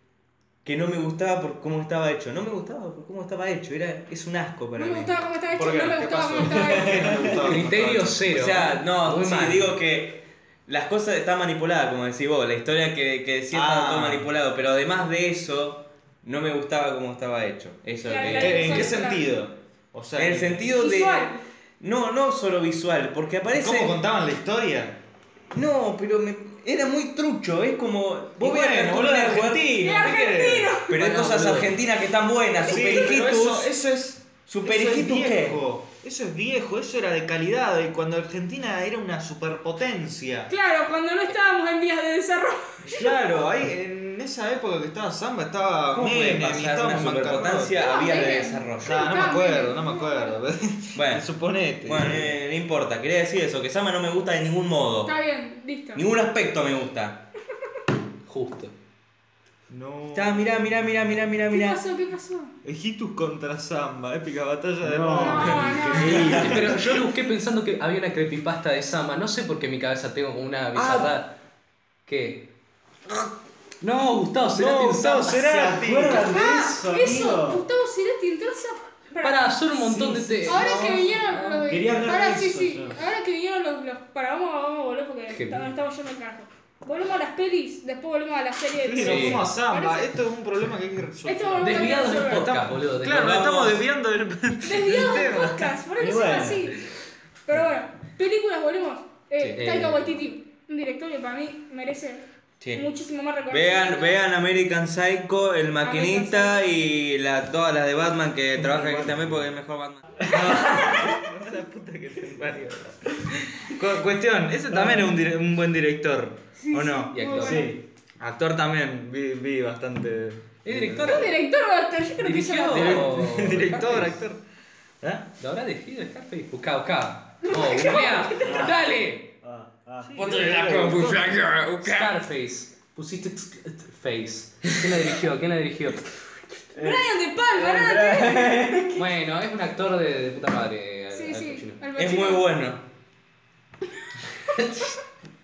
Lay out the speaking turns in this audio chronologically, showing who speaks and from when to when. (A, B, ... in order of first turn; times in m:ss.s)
0:00.6-0:05.1 A
0:04.8-0:07.5 B
0:05.5-0:08.3 C
0:06.6-0:07.4 D
0:07.4-0:09.8 E
0:08.3-0:19.2 A
0:13.5-0:14.3 C
0:18.0-0:19.3 B
0:18.2-0:20.7 C
0:20.2-0:24.0 A
0:20.7-0:21.4 B
0:23.5-0:25.0 C
0:25.5-0:30.0 A
0:28.4-0:30.8 C
0:29.8-0:31.0 B
0:30.9-0:33.7 A
0:30.9-0:31.8 E
0:32.6-0:40.5 C
0:34.5-0:35.6 A
0:40.5-0:43.3 B
0:42.8-0:47.8 C
0:45.9-0:49.1 A
0:47.7-0:50.3 B
0:48.8-0:52.3 C
0:50.9-0:51.3 A
0:51.8-0:55.1 A
0:55.0-0:56.0 B
0:55.9-0:57.2 A
0:58.2-0:58.7 E
0:59.7-1:00.7 C
1:00.1-1:01.8 A
1:01.5-1:02.5 B
1:02.6-1:07.0 C
1:04.8-1:07.0 D
1:05.1-1:06.5 B
1:06.1-1:11.3 E
1:10.7-1:11.1 D
1:12.0-1:12.4 E
1:13.8-1:15.4 E
1:14.5-1:16.2 C
1:15.4-1:17.6 D
1:16.1-1:19.8 B
1:19.2-1:21.7 E
1:19.9-1:21.0 D
1:20.4-1:30.1 B
1:21.6-1:23.0 D
1:25.3-1:25.7 E
1:28.8-1:35.7 C
1:29.0-1:29.5 E
1:31.2-1:32.5 B
1:31.6-1:33.6 E
1:33.1-1:33.8 A
1:34.6-1:36.8 B
1:36.0-1:36.8 D
1:37.4-1:44.2 B
1:39.5-1:40.2 E
1:42.6-1:42.9 A
1:43.5-1:50.3 A
1:45.8-1:46.8 B
1:48.6-1:49.4 D
1:50.2-1:51.0 D
1:50.3-1:56.4 C
1:54.7-1:55.2 D
1:56.6-1:57.7 B
1:56.7-1:57.1 A
1:57.1-1:57.7 E
1:57.3-1:57.8 D
1:58.2-2:00.4 C
2:00.6-2:01.3 E
2:01.0-2:03.1 B
2:02.2-2:04.2 E
2:02.7-2:04.4 C
2:05.4-2:09.3 E
2:07.4-2:08.6 B
2:08.4-2:08.8 D
2:09.4-2:11.0 D
2:10.0-2:11.4 C
2:10.2-2:12.1 A
2:11.8-2:16.6 E
2:16.7-2:19.0 D
2:16.7-2:19.0 B
2:19.0-2:21.8 E
2:21.1-2:22.5 B
2:22.0-2:22.8 A
2:24.5-2:24.9 E